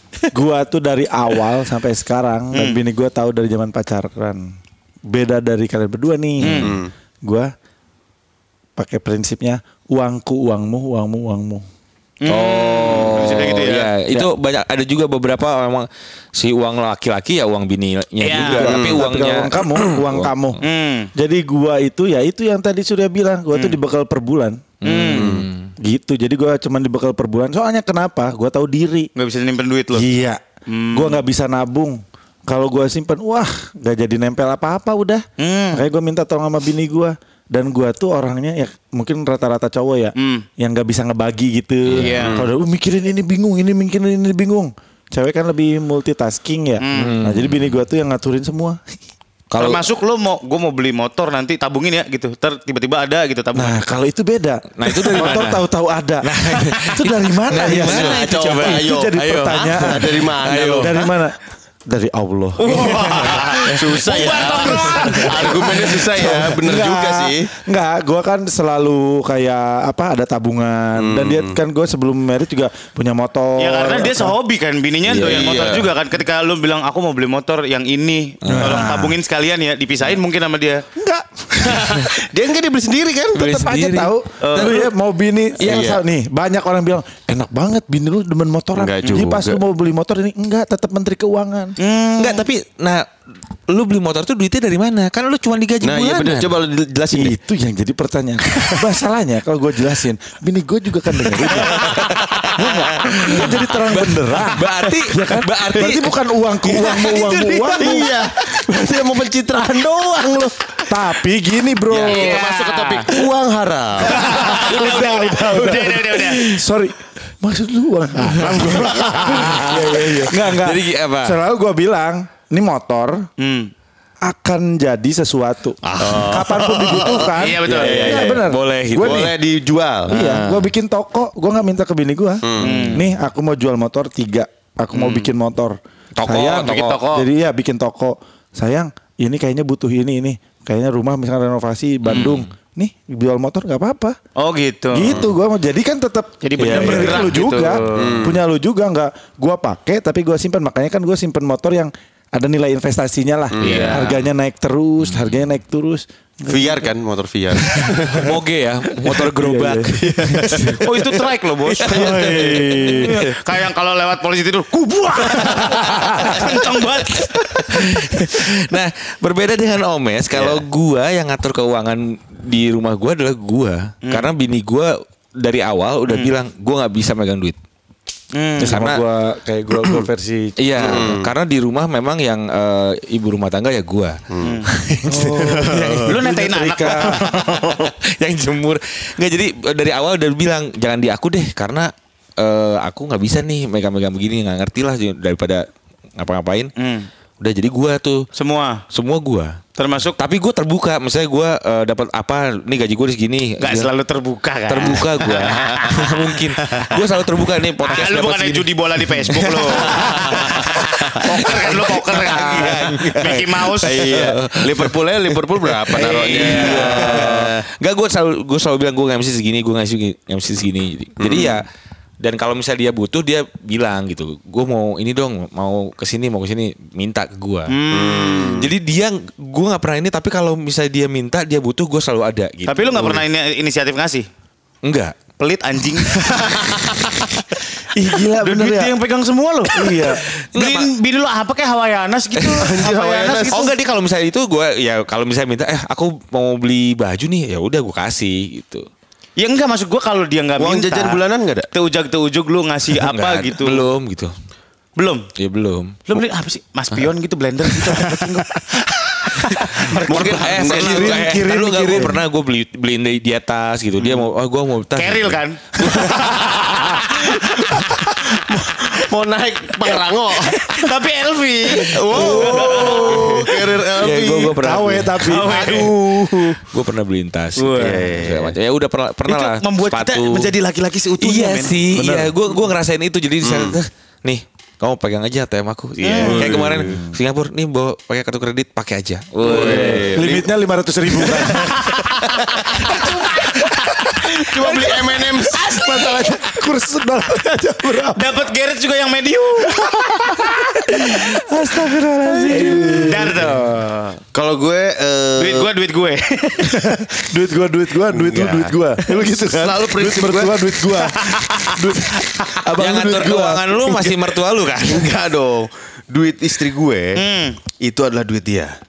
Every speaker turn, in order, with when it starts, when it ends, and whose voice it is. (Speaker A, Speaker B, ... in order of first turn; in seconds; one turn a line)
Speaker A: 0.3-4.5
Speaker B: 2.5-2.8
Speaker A: 5.1-7.5
Speaker B: 6.4-6.7
Speaker C: 6.4-6.7
Speaker D: 6.6-6.9
Speaker A: 8.8-11.7
Speaker B: 12.2-13.9
Speaker C: 12.3-20.6
Speaker B: 18.2-18.7
Speaker A: 18.4-20.6
Speaker D: 18.6-19.0
Speaker B: 20.6-21.1
Speaker A: 21.1-24.7
Speaker B: 23.5-23.8
Speaker C: 24.8-25.7
Speaker B: 24.8-25.4
Speaker D: 25.1-25.5
Speaker A: 25.8-29.1
Speaker B: 29.1-30.1
Speaker A: 29.9-30.4
Speaker B: 30.7-31.2
Speaker A: 30.9-48.8
Speaker B: 35.4-35.8
Speaker B: 40.2-40.5
Speaker C: 41.9-42.2
Speaker B: 42.0-42.4
Speaker D: 42.2-42.5
Speaker B: 46.8-47.2
Speaker C: 46.9-47.8
Speaker C: 49.5-49.8
Speaker B: 49.6-53.8
Speaker A: 53.5-61.4
Speaker C: 54.8-55.7
Speaker C: 56.2-61.0
Speaker D: 57.5-61.1
Speaker A: 61.9-63.3
Speaker B: 62.6-65.8
Speaker D: 62.9-67.5
Speaker C: 63.1-64.4
Speaker A: 64.5-74.3
Speaker D: 71.0-71.6
Speaker B: 73.6-80.8
Speaker C: 75.1-75.8
Speaker D: 75.3-75.9
Speaker C: 78.4-79.0
Speaker A: 78.5-79.2
Speaker A: 81.0-82.0
Speaker D: 81.6-83.4
Speaker C: 83.3-84.2
Speaker A: 83.4-91.8
Speaker B: 84.4-84.9
Speaker D: 85.6-86.0
Speaker C: 85.6-85.9
Speaker D: 88.8-89.6
Speaker B: 91.8-92.5
Speaker C: 92.2-93.0
Speaker C: 93.7-96.6
Speaker D: 95.8-97.4
Speaker A: 97.1-108.1
Speaker D: 98.5-98.8
Speaker D: 101.4-102.5
Speaker C: 101.4-106.2
Speaker D: 105.7-106.0
Speaker D: 106.6-110.7
Speaker A: 110.9-112.3
Speaker D: 111.9-115.0
Speaker B: 112.1-113.1
Speaker A: 114.0-123.3
Speaker B: 114.0-116.5
Speaker C: 118.2-121.4
Speaker B: 123.4-123.7
Speaker A: 124.2-129.3
Speaker C: 125.8-126.4
Speaker D: 126.0-128.1
Speaker B: 127.3-128.2
Speaker C: 127.7-129.3
Speaker D: 129.0-130.1
Speaker C: 130.1-130.7
Speaker A: 130.1-144.2
Speaker D: 132.4-132.7
Speaker C: 132.6-133.1
Speaker B: 132.6-133.1
Speaker B: 134.9-135.3
Speaker C: 136.2-137.0
Speaker B: 136.6-137.3
Speaker C: 142.0-142.5
Speaker B: 144.4-145.2
Speaker A: 144.9-156.9
Speaker D: 145.1-145.3
Speaker B: 146.4-148.2
Speaker C: 146.6-147.3
Speaker D: 147.9-148.4
Speaker D: 153.5-154.1
Speaker C: 153.6-154.3
Speaker C: 155.0-155.4
Speaker D: 156.5-158.3
Speaker A: 157.7-158.3
Speaker C: 157.9-160.9
Speaker A: 159.0-160.8
Speaker D: 160.0-160.7
Speaker B: 160.8-167.6
Speaker D: 161.8-163.2
Speaker C: 161.9-163.3
Speaker A: 162.0-163.2
Speaker A: 165.8-166.4
Speaker C: 167.4-177.6
Speaker B: 176.1-176.3
Speaker B: 178.3-178.8
Speaker A: 178.6-181.2
Speaker C: 178.6-179.0
Speaker C: 180.6-184.2
Speaker D: 180.8-181.3
Speaker D: 184.3-184.6
Speaker B: 184.4-184.7
Speaker C: 184.7-186.2
Speaker A: 185.0-187.2
Speaker D: 185.4-186.0
Speaker B: 186.1-187.7
Speaker C: 186.8-195.7
Speaker C: 196.2-196.7
Speaker B: 196.8-197.1
Speaker C: 197.4-198.3
Speaker B: 198.3-198.8
Speaker C: 198.9-199.6
Speaker B: 199.8-200.2
Speaker C: 200.2-203.9
Speaker B: 203.6-206.0
Speaker C: 204.7-208.7
Speaker D: 205.4-205.9
Speaker B: 207.9-214.0
Speaker C: 209.2-221.7
Speaker D: 213.8-217.7
Speaker B: 215.9-217.3
Speaker D: 221.2-221.6
Speaker C: 222.2-227.8
Speaker B: 227.7-228.6
Speaker D: 227.9-228.7
Speaker C: 228.6-233.2
Speaker B: 232.7-234.2
Speaker C: 234.8-235.2
Speaker B: 235.4-237.4
Speaker A: 237.9-238.9
Speaker B: 238.4-240.0
Speaker A: 239.7-240.2
Speaker C: 240.5-240.9
Speaker B: 240.5-243.7
Speaker C: 242.4-242.8
Speaker D: 242.6-243.7
Speaker C: 243.4-248.9
Speaker B: 249.4-253.9
Speaker D: 250.6-251.7
Speaker C: 253.0-254.3
Speaker B: 255.0-255.3
Speaker C: 255.4-256.1
Speaker B: 256.1-260.7
Speaker C: 257.6-258.5
Speaker C: 259.4-266.2
Speaker D: 260.1-261.3
Speaker A: 260.7-262.2
Speaker B: 264.0-264.3
Speaker B: 264.9-267.4
Speaker A: 265.9-268.4
Speaker D: 266.9-267.6
Speaker D: 268.3-270.9
Speaker B: 270.6-273.7
Speaker D: 271.7-274.6
Speaker A: 272.1-273.4
Speaker C: 273.8-275.9
Speaker A: 274.6-276.6
Speaker B: 275.2-276.4
Speaker C: 276.6-280.5
Speaker B: 277.6-278.1
Speaker D: 277.8-278.6
Speaker B: 279.3-281.8
Speaker C: 281.2-290.2
Speaker A: 281.9-282.4
Speaker D: 283.4-283.8
Speaker B: 286.0-286.6
Speaker D: 286.2-287.0
Speaker A: 286.8-287.2
Speaker D: 289.4-290.5
Speaker A: 289.4-298.4
Speaker D: 291.2-291.5
Speaker B: 291.8-292.2
Speaker B: 292.8-293.7
Speaker D: 294.4-295.6
Speaker B: 298.1-299.9
Speaker A: 299.7-303.6
Speaker C: 302.4-303.0
Speaker D: 302.6-303.0
Speaker B: 303.0-304.2
Speaker D: 304.3-305.7
Speaker B: 305.4-306.9
Speaker A: 306.6-313.8
Speaker D: 308.1-311.7
Speaker C: 312.8-315.1
Speaker D: 313.9-314.2
Speaker D: 314.8-317.2
Speaker B: 317.2-317.6
Speaker D: 317.8-318.8